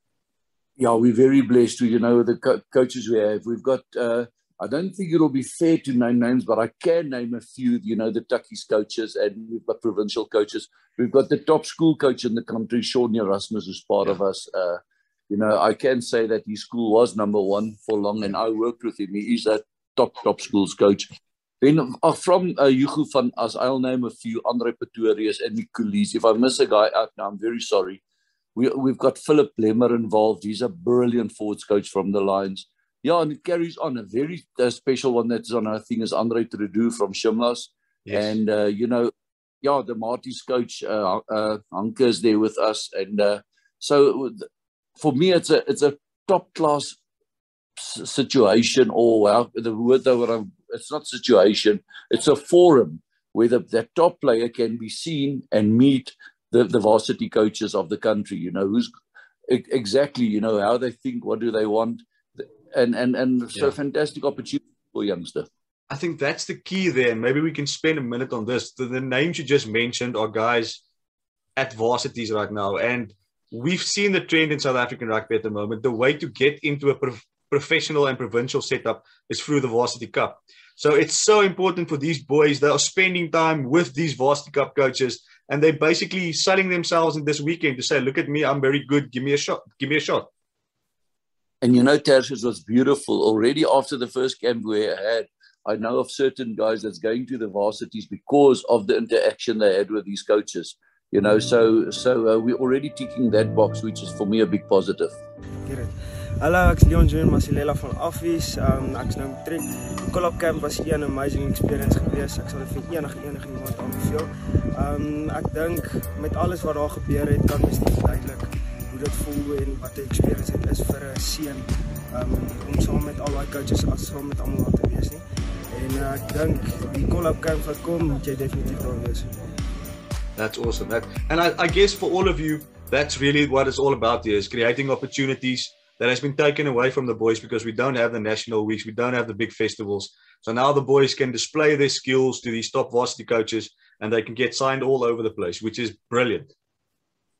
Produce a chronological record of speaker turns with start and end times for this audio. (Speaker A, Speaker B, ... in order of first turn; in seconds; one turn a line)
Speaker A: 0.8-28.0
Speaker A: 28.6-39.1
Speaker B: 38.1-38.4
Speaker A: 39.6-47.0
Speaker A: 47.8-58.9
Speaker A: 59.5-65.5
Speaker B: 65.9-70.8
Speaker B: 71.5-90.3
Speaker A: 91.6-105.2
Speaker C: 105.6-129.4
Speaker B: 130.4-146.5